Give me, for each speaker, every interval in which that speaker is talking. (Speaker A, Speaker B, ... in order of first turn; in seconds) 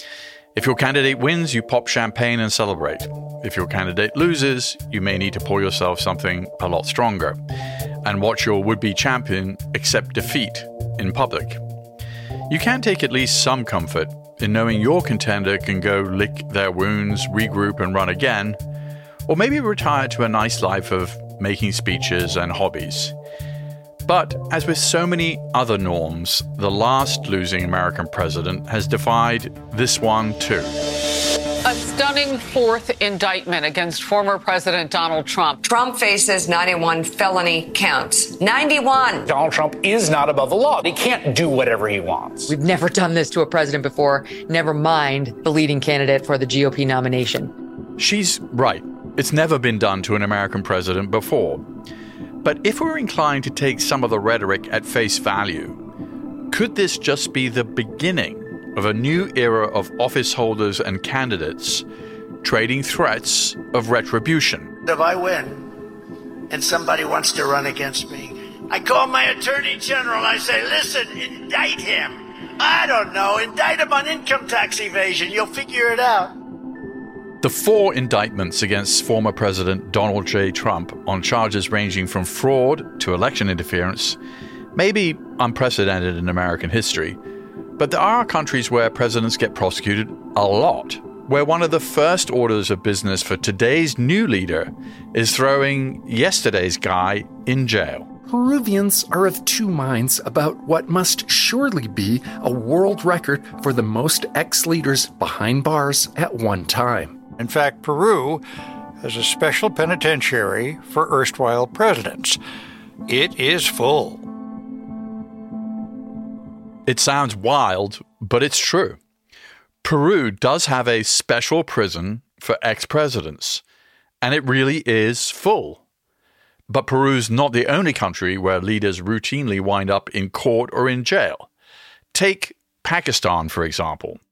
Speaker A: 0.6-7.4, 8.0-11.6, 12.5-18.6, 19.3-23.1, 24.1-30.7, 48.0-51.6, 52.4-55.8, 56.5-61.9, 62.4-64.7, 77.4-84.2, 84.8-87.2, 87.8-98.1, 116.9-119.0, 119.8-123.6, 124.2-125.8, 126.7-131.5, 132.1-134.2
Speaker B: 31.6-35.6
Speaker C: 35.6-39.3
Speaker D: 39.3-42.5
Speaker E: 42.5-47.5
Speaker F: 64.8-65.7, 66.5-76.3
Speaker G: 98.3-107.2
Speaker H: 107.4-108.4, 109.0-112.4, 113.1-114.3